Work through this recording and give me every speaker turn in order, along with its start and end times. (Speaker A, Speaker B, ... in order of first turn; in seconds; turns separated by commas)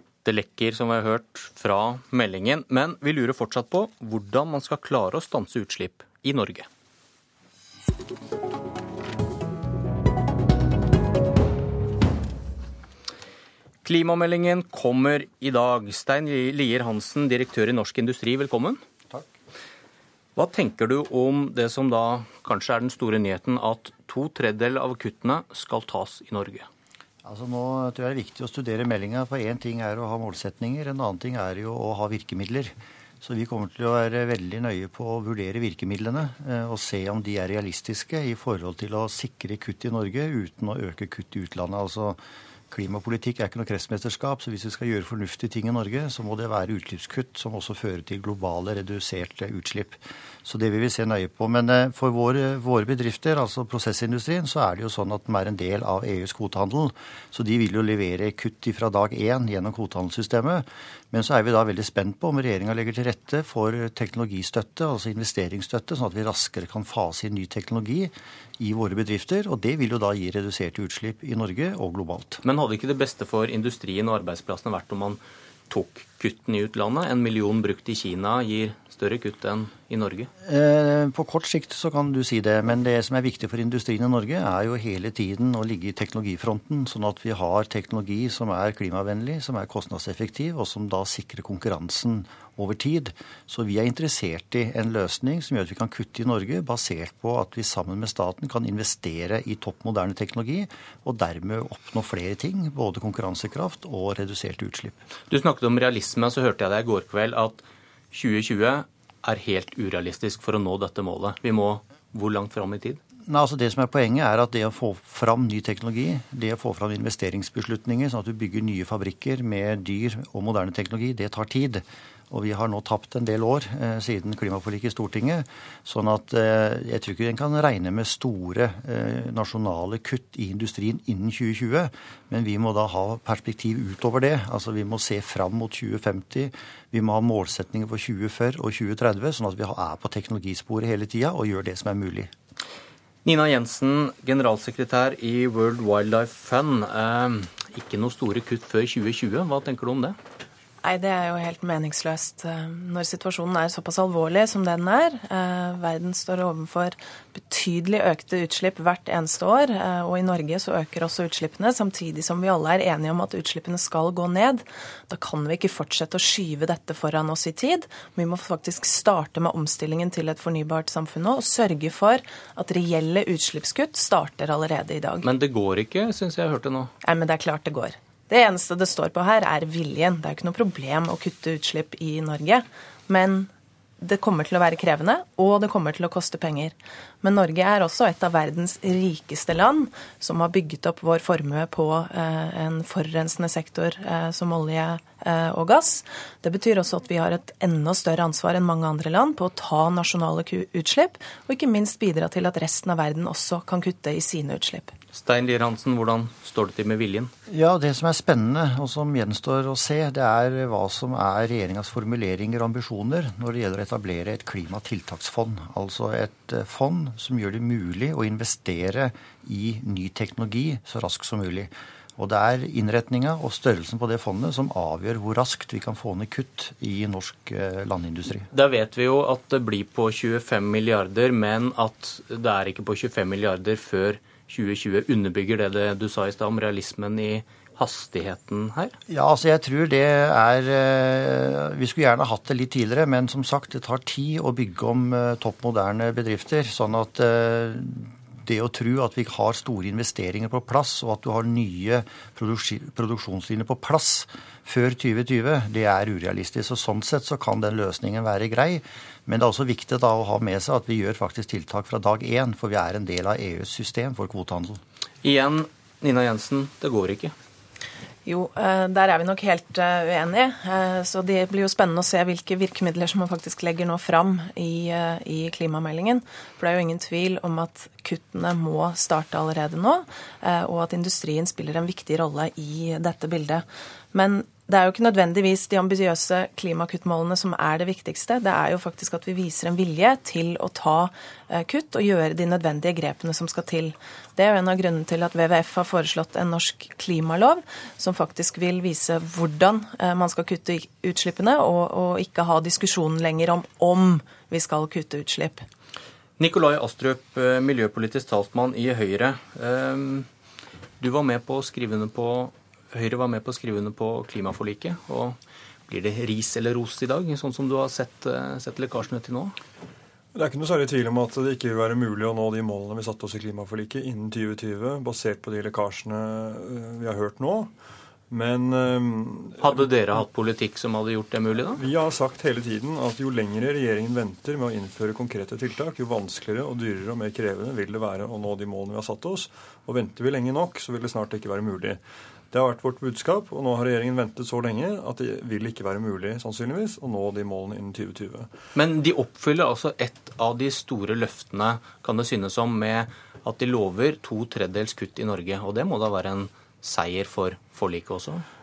Speaker A: 0.2-6.7, Speaker A: 13.8-18.8, Speaker A: 20.4-26.7, Speaker B: 27.2-42.2, Speaker B: 42.7-72.4, Speaker A: 72.4-80.3, Speaker B: 80.4-105.0, Speaker A: 105.3-113.0, Speaker B: 113.3-142.3, Speaker A: 143.2-150.2, Speaker C: 150.8-175.2, Speaker A: 175.2-176.9, Speaker C: 177.0-183.5, Speaker C: 184.0-204.9, Speaker A: 205.1-207.3, Speaker B: 207.5-228.5, Speaker A: 228.5-238.9, Speaker B: 239.1-264.8, Speaker A: 265.2-267.3, Speaker C: 268.2-305.6, Speaker A: 306.4-310.3, Speaker A: 311.0-319.6, Speaker D: 320.3-327.7, Speaker D: 328.3-329.9, Speaker A: 329.6-331.8, Speaker D: 331.8-342.0, Speaker D: 342.5-348.5, Speaker A: 348.7-358.4